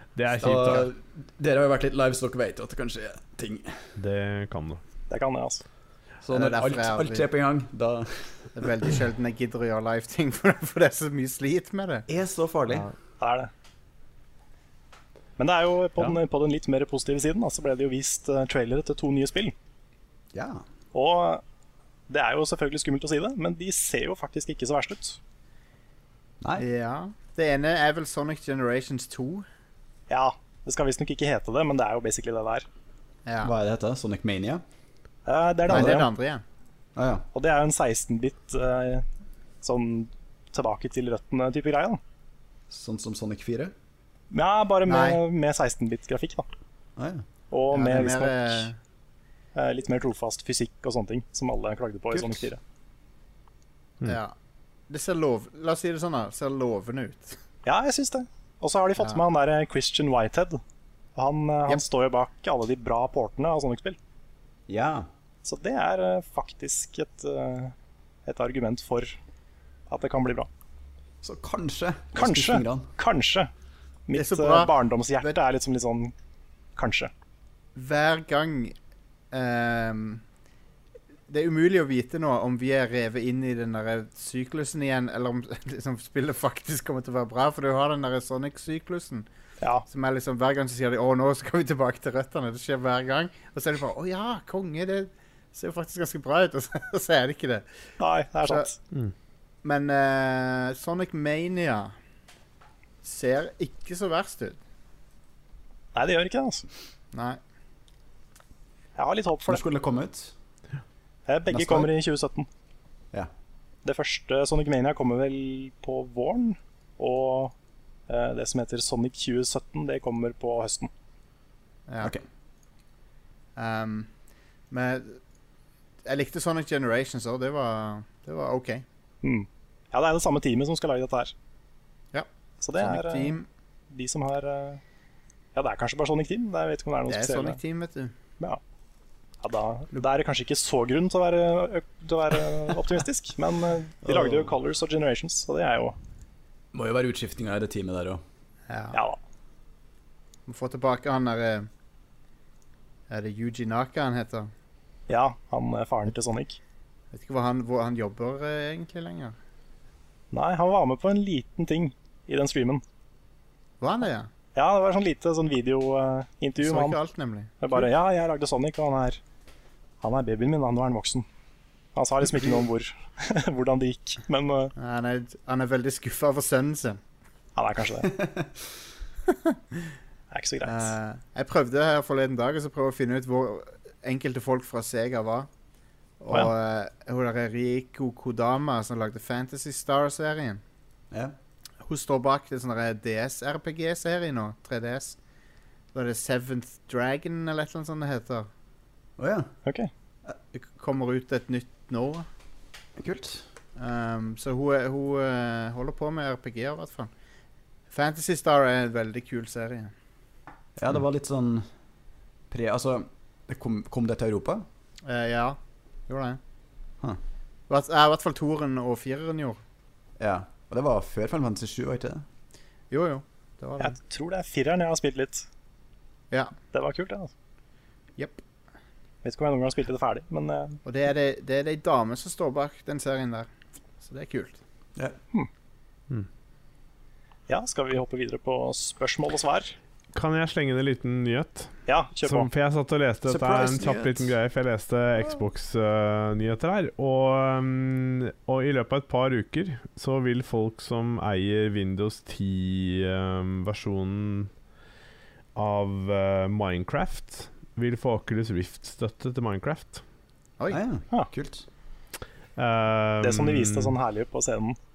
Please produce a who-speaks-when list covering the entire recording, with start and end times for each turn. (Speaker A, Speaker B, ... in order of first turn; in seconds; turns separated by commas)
Speaker A: 0.1-0.9, Speaker B: 0.3-3.9, Speaker A: 4.0-4.8, Speaker C: 5.1-5.6, Speaker B: 6.2-8.9, Speaker D: 6.3-7.2, Speaker D: 8.5-12.1, Speaker B: 12.1-12.9, Speaker C: 13.2-13.5, Speaker C: 15.4-19.5, Speaker B: 20.3-20.6, Speaker C: 20.9-21.4, Speaker C: 22.1-25.2, Speaker B: 26.4-26.6, Speaker D: 26.6-29.4, Speaker C: 30.1-32.6, Speaker D: 33.2-33.5, Speaker B: 33.4-34.6, Speaker C: 35.2-36.1, Speaker B: 35.7-36.0, Speaker D: 35.7-36.4, Speaker B: 37.0-37.2, Speaker C: 37.3-39.0, Speaker C: 39.6-42.0, Speaker B: 42.7-43.7, Speaker C: 44.3-46.4, Speaker D: 44.9-45.2, Speaker B: 47.0-47.2, Speaker C: 47.5-48.7, Speaker D: 47.7-48.8, Speaker C: 49.5-52.6, Speaker B: 52.1-52.5, Speaker D: 54.0-54.3, Speaker D: 54.9-57.4, Speaker C: 57.6-60.6, Speaker C: 61.1-64.0, Speaker B: 64.7-65.1, Speaker C: 65.4-67.7, Speaker C: 68.2-69.1, Speaker C: 69.9-70.5, Speaker B: 71.2-72.9, Speaker C: 72.1-73.5, Speaker C: 74.1-76.1, Speaker D: 74.1-74.7, Speaker C: 76.8-77.1, Speaker D: 77.8-78.7, Speaker D: 79.3-80.2, Speaker D: 81.3-89.3, Speaker D: 89.8-97.7, Speaker C: 98.0-98.7, Speaker D: 98.4-98.7, Speaker D: 99.6-101.9, Speaker D: 103.0-104.6, Speaker C: 105.9-106.6, Speaker D: 107.1-107.4, Speaker C: 109.0-109.6, Speaker B: 109.5-110.3, Speaker C: 111.3-112.5, Speaker B: 111.5-111.9, Speaker C: 113.8-117.5, Speaker C: 118.1-120.9, Speaker D: 121.9-122.1, Speaker D: 123.5-124.1, Speaker D: 124.7-125.2, Speaker D: 126.0-128.8, Speaker C: 129.2-131.3, Speaker D: 132.1-133.5, Speaker C: 132.6-133.4, Speaker C: 133.9-134.8, Speaker C: 135.5-137.6, Speaker D: 137.1-138.1, Speaker C: 139.4-145.9, Speaker B: 144.1-144.5, Speaker B: 146.7-148.2, Speaker D: 148.7-149.0, Speaker C: 148.9-149.2, Speaker D: 150.5-151.7, Speaker D: 153.1-154.5, Speaker C: 155.1-156.6, Speaker D: 157.1-159.3, Speaker C: 160.3-162.8, Speaker D: 163.8-164.3, Speaker C: 164.5-167.0, Speaker D: 166.6-167.8, Speaker C: 167.6-169.2, Speaker C: 170.0-171.2, Speaker C: 171.9-174.7, Speaker D: 174.8-177.0, Speaker C: 177.6-178.1, Speaker B: 178.0-178.5, Speaker D: 179.3-179.8, Speaker C: 180.3-180.9, Speaker D: 180.6-185.5, Speaker D: 186.2-190.6, Speaker D: 191.8-195.2, Speaker D: 195.9-198.5, Speaker B: 199.2-199.5, Speaker C: 199.6-199.9, Speaker D: 200.5-202.2, Speaker B: 203.0-203.4, Speaker D: 203.8-207.1, Speaker D: 207.9-209.9, Speaker B: 210.8-211.7, Speaker B: 212.5-214.6, Speaker D: 215.0-216.4, Speaker D: 217.7-219.6, Speaker B: 220.2-222.2, Speaker D: 222.9-223.9, Speaker C: 223.8-225.5, Speaker C: 226.7-227.3, Speaker D: 228.2-228.4, Speaker C: 229.2-230.8, Speaker D: 230.8-233.5, Speaker D: 234.0-234.6, Speaker C: 237.5-239.7, Speaker A: 240.1-254.5, Speaker C: 241.9-242.5, Speaker B: 243.2-244.3, Speaker A: 255.5-260.0, Speaker B: 260.7-261.6, Speaker A: 262.6-263.9, Speaker C: 263.2-264.8